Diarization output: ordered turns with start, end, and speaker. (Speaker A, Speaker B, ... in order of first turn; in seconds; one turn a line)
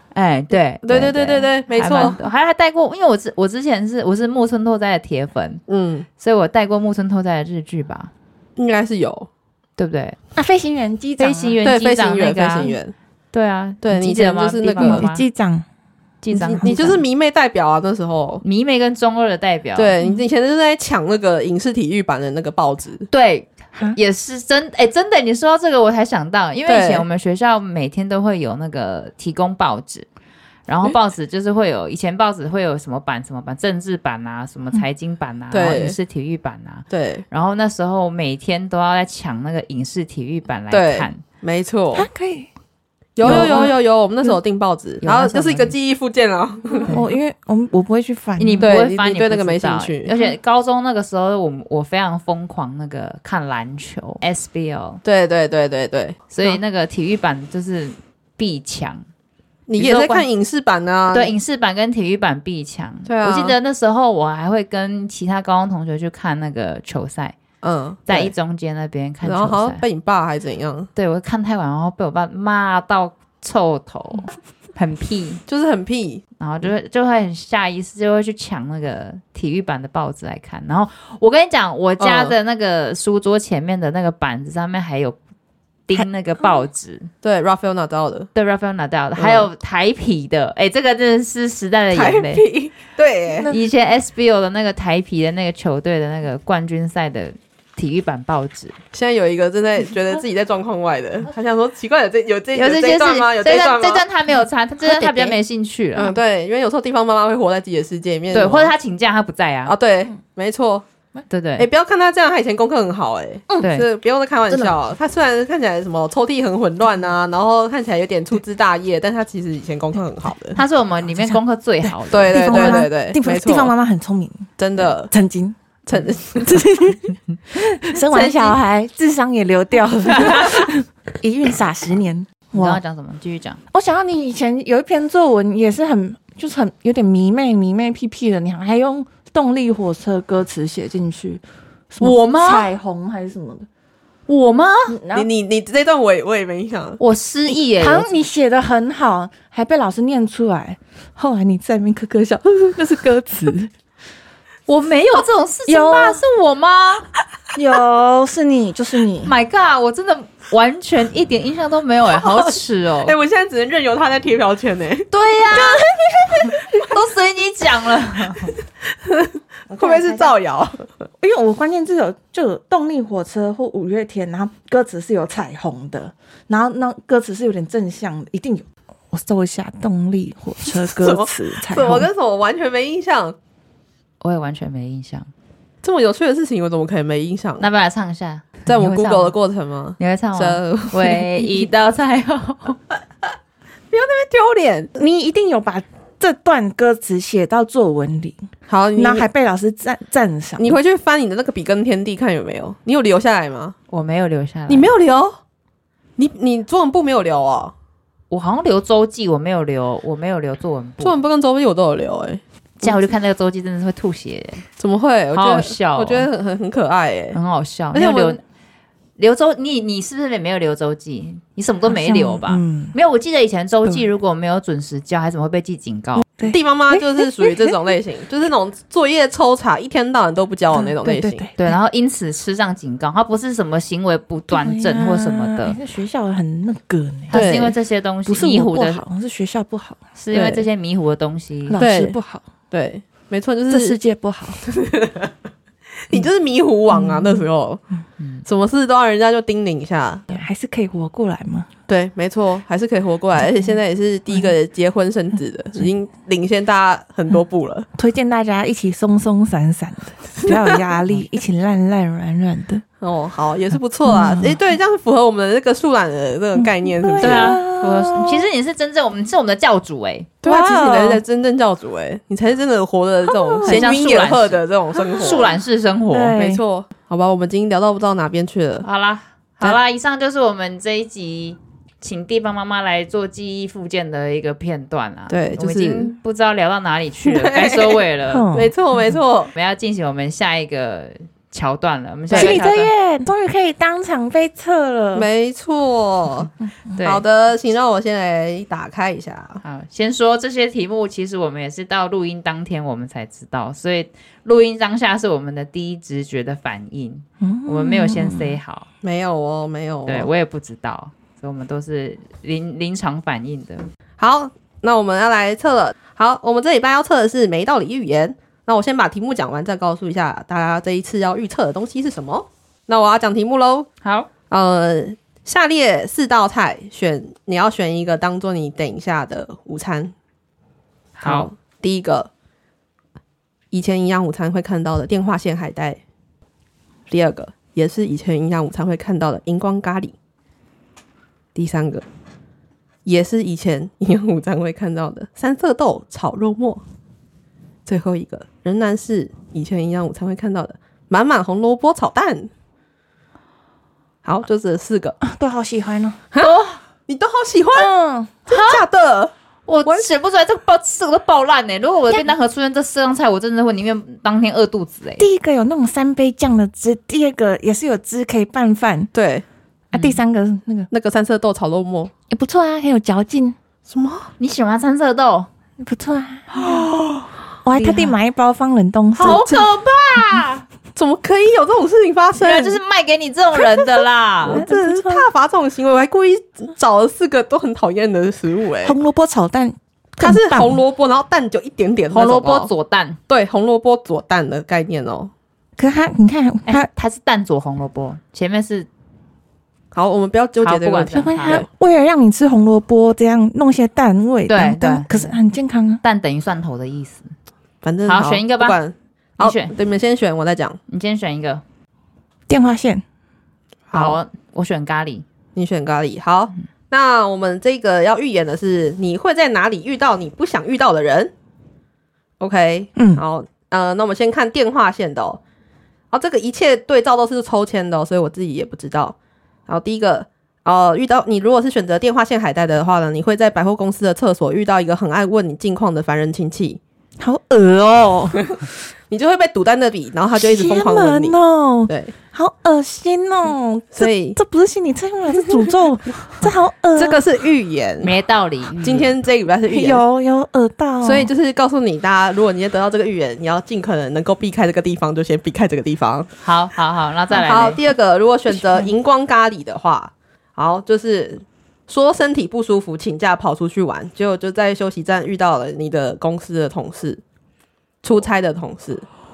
Speaker A: 0.1-5.6
Speaker B: 0.8-2.2
Speaker B: 5.7-6.0
Speaker A: 6.2-8.1
Speaker B: 8.6-9.3
Speaker A: 9.8-10.2
Speaker C: 10.3-11.6
Speaker A: 11.2-12.8
Speaker B: 11.6-12.9
Speaker A: 13.3-15.2
Speaker B: 13.8-15.1
Speaker C: 14.8-15.7
Speaker A: 16.2-17.0
Speaker B: 16.3-18.4
Speaker C: 16.4-16.9
Speaker A: 18.4-19.9
Speaker B: 19.8-23.1
Speaker A: 23.1-30.1
Speaker B: 26.6-27.1
Speaker A: 30.7-41.2
Speaker B: 35.5-36.0
Speaker B: 36.9-37.2
Speaker B: 40.7-42.1
Speaker C: 41.9-42.5
Speaker B: 43.1-46.9
Speaker A: 43.2-43.7
Speaker C: 43.2-43.7
Speaker A: 45.0-45.7
Speaker C: 46.9-48.7
Speaker A: 48.4-55.0
Speaker B: 48.6-50.1
Speaker B: 55.0-56.6
Speaker A: 56.3-59.0
Speaker B: 59.7-61.3
Speaker A: 59.8-60.2
Speaker A: 61.1-67.3
Speaker B: 63.0-63.5
Speaker B: 67.6-68.3
Speaker A: 68.1-69.8
Speaker B: 69.2-70.9
Speaker A: 71.0-75.4
Speaker B: 75.5-76.2
Speaker A: 76.4-85.2
Speaker B: 82.0-82.3
Speaker A: 85.9-87.1
Speaker B: 87.2-88.3
Speaker A: 88.3-92.4
Speaker B: 89.2-89.5
Speaker B: 91.9-93.5
Speaker A: 93.5-98.7
Speaker B: 98.9-104.0
Speaker A: 102.5-106.1
Speaker C: 104.8-105.4
Speaker B: 106.0-108.7
Speaker A: 108.3-109.7
Speaker B: 109.7-110.8
Speaker A: 111.3-111.7
Speaker B: 111.6-120.6
Speaker A: 113.6-113.9
Speaker A: 120.5-122.8
Speaker C: 121.1-125.5
Speaker B: 122.1-123.7
Speaker B: 124.6-125.1
Speaker B: 125.8-127.0
Speaker C: 126.3-127.0
Speaker C: 127.5-132.8
Speaker A: 128.1-128.6
Speaker A: 130.2-130.5
Speaker A: 132.6-133.6
Speaker C: 133.7-143.7
Speaker A: 142.0-142.7
Speaker A: 144.3-144.9
Speaker C: 144.9-145.3
Speaker B: 145.1-147.0
Speaker A: 147.0-148.1
Speaker C: 147.7-153.7
Speaker A: 154.7-157.1
Speaker C: 155.7-156.2
Speaker C: 157.5-159.3
Speaker A: 159.2-163.1
Speaker B: 162.1-165.1
Speaker A: 165.1-165.8
Speaker C: 165.5-166.5
Speaker A: 166.4-168.5
Speaker B: 169.0-170.8
Speaker C: 169.7-170.3
Speaker C: 171.2-182.1
Speaker B: 180.8-183.3
Speaker A: 184.2-185.3
Speaker B: 185.8-187.7
Speaker A: 187.6-189.3
Speaker B: 188.7-191.4
Speaker A: 190.0-192.8
Speaker B: 193.9-194.9
Speaker C: 194.9-200.8
Speaker B: 198.7-199.3
Speaker B: 200.6-203.8
Speaker A: 203.9-204.9
Speaker B: 204.7-205.4
Speaker B: 206.2-207.7
Speaker A: 208.3-211.2
Speaker B: 211.0-213.1
Speaker A: 212.8-214.6
Speaker B: 214.8-217.4
Speaker A: 215.3-216.3
Speaker A: 217.3-218.4
Speaker B: 217.9-218.4
Speaker A: 219.2-226.2
Speaker C: 221.9-222.9
Speaker C: 226.2-227.8
Speaker B: 226.4-231.5
Speaker C: 230.7-231.7
Speaker A: 231.6-235.8
Speaker C: 234.5-237.5
Speaker A: 237.3-239.0
Speaker B: 237.3-237.8
Speaker C: 238.2-240.0
Speaker A: 240.2-241.8
Speaker B: 240.3-240.7
Speaker C: 241.7-242.4
Speaker B: 241.8-242.1
Speaker B: 242.7-244.0
Speaker C: 243.7-244.6
Speaker B: 244.6-245.3
Speaker B: 246.1-247.8
Speaker C: 246.9-247.4
Speaker A: 248.2-248.4
Speaker B: 248.4-250.3
Speaker C: 250.3-251.7
Speaker B: 251.9-257.9
Speaker C: 257.9-262.8
Speaker B: 260.4-261.0
Speaker B: 263.0-267.6
Speaker C: 264.0-264.6
Speaker C: 266.6-268.4
Speaker A: 267.2-270.3
Speaker B: 270.4-275.6
Speaker C: 270.4-271.2
Speaker C: 273.4-273.9
Speaker A: 273.6-274.6
Speaker A: 275.1-276.4
Speaker C: 276.1-276.6
Speaker B: 276.4-278.8
Speaker A: 278.8-288.5
Speaker B: 285.3-286.1
Speaker B: 287.2-289.5
Speaker C: 288.3-289.1
Speaker A: 289.5-292.9
Speaker B: 292.3-292.6
Speaker C: 292.3-295.3
Speaker B: 295.1-296.5
Speaker B: 297.0-299.6
Speaker A: 299.6-308.9
Speaker C: 307.4-308.6
Speaker B: 309.0-310.3
Speaker A: 310.1-313.9
Speaker B: 314.2-323.9
Speaker A: 324.0-324.3
Speaker B: 324.5-330.1
Speaker A: 331.2-331.5
Speaker B: 331.2-332.3
Speaker B: 333.7-336.0
Speaker B: 337.1-340.1
Speaker B: 341.5-342.1
Speaker B: 343.0-346.8
Speaker B: 347.9-352.5
Speaker B: 354.2-355.2
Speaker C: 355.2-356.2
Speaker B: 356.3-357.9
Speaker A: 356.4-356.8
Speaker C: 357.7-358.3
Speaker B: 358.5-359.3
Speaker A: 358.5-358.8
Speaker A: 359.6-365.2
Speaker C: 365.2-369.1
Speaker B: 369.1-369.4
Speaker C: 369.9-370.9
Speaker A: 369.9-370.2
Speaker B: 370.9-372.1
Speaker C: 372.3-373.6
Speaker B: 373.9-374.3
Speaker A: 374.4-375.5
Speaker C: 375.8-376.9
Speaker B: 376.7-377.2
Speaker C: 377.6-379.4
Speaker A: 377.7-378.1
Speaker B: 379.2-379.7
Speaker A: 379.2-380.6
Speaker B: 380.9-382.8
Speaker A: 382.4-384.6
Speaker B: 383.6-389.0
Speaker C: 384.5-385.2
Speaker C: 388.8-390.8
Speaker B: 390.2-392.7
Speaker A: 392.1-393.2
Speaker B: 393.3-395.3
Speaker C: 395.8-396.9
Speaker A: 396.6-398.9
Speaker B: 399.9-401.7
Speaker A: 400.6-401.6
Speaker C: 401.1-406.0
Speaker A: 404.5-405.4
Speaker A: 406.0-407.3
Speaker B: 407.8-410.8
Speaker A: 408.0-408.8
Speaker A: 409.4-409.7
Speaker A: 410.9-411.6
Speaker C: 412.5-413.0
Speaker B: 413.9-414.2
Speaker A: 413.9-415.2
Speaker B: 415.6-421.3
Speaker B: 422.4-425.4
Speaker C: 422.9-423.2
Speaker B: 426.1-429.1
Speaker B: 429.7-436.8
Speaker C: 437.2-438.6
Speaker B: 439.1-441.4
Speaker C: 440.3-447.2
Speaker B: 441.9-442.1
Speaker B: 443.9-444.4
Speaker B: 446.9-448.1
Speaker A: 448.0-449.1
Speaker B: 448.8-450.0
Speaker C: 449.7-451.3
Speaker B: 451.0-456.3
Speaker A: 456.4-457.8
Speaker B: 457.3-467.2
Speaker C: 458.5-458.9
Speaker B: 468.0-469.1